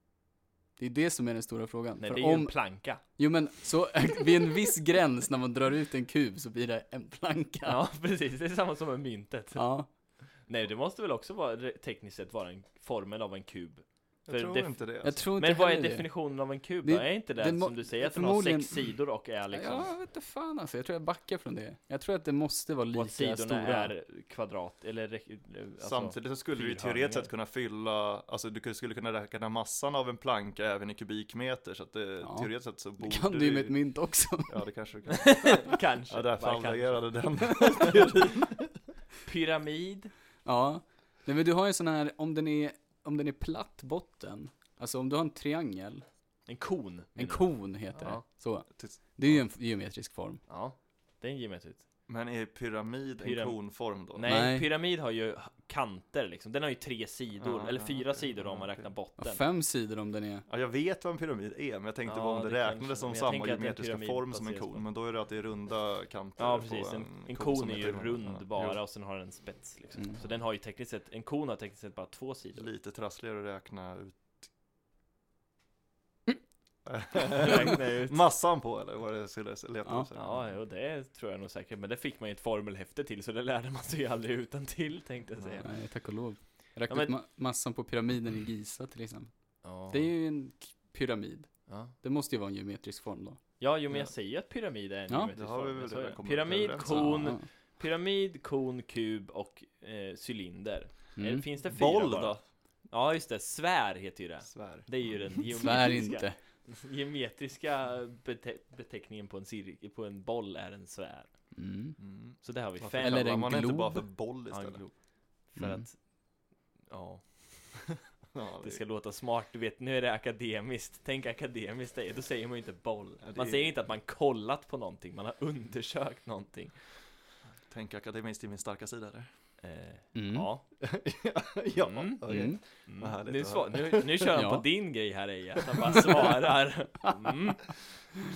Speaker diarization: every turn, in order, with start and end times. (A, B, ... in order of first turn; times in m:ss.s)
0:00.8-0:07.8 A
0:02.0-0:03.0 B
0:07.6-0:19.9 B
0:09.6-0:09.9 A
0:14.3-0:15.2 C
0:15.0-0:16.3 A
0:16.8-0:23.9 A
0:22.9-0:27.3 B
0:25.8-0:33.8 C
0:32.2-0:34.6 A
0:34.5-0:38.7 C
0:35.1-0:38.2 B
0:39.2-0:40.1 B
0:40.4-0:46.0 A
0:46.5-0:48.2 B
0:47.2-0:50.4 A
0:48.8-0:49.4 C
0:50.5-0:51.9 B
0:52.1-0:54.3 C
0:53.2-0:59.4 B
0:54.3-0:54.7 A
0:57.4-0:58.9 C
0:59.2-1:00.5 A
1:00.5-1:08.8 C
1:02.1-1:04.8 B
1:06.4-1:12.7 B
1:12.6-1:14.4 C
1:16.8-1:20.5 C
1:17.3-1:18.2 B
1:20.2-1:25.7 B
1:25.4-1:25.6 C
1:25.6-1:33.4 A
1:26.9-1:27.1 B
1:29.6-1:30.1 B
1:31.7-1:31.9 B
1:33.6-1:42.4 B
1:35.4-1:37.2 C
1:36.9-1:37.4 A
1:41.2-1:41.4 A
1:41.7-1:42.4 C
1:42.9-1:51.3 B
1:44.5-1:44.9 C
1:45.6-1:46.4 A
1:51.6-1:52.0 A
1:52.0-1:54.8 C
1:52.4-1:53.6 B
1:53.0-1:54.1 A
1:54.5-1:56.0 B
1:55.6-1:55.8 A
1:56.9-1:57.9 B
1:58.3-1:58.8 C
1:58.6-2:06.8 B
2:03.2-2:03.7 C
2:07.7-2:09.3 C
2:09.6-2:10.7 B
2:10.2-2:10.5 A
2:10.8-2:14.4 C
2:11.7-2:18.1 B
2:12.3-2:12.6 A
2:14.3-2:14.6 A
2:15.8-2:16.2 C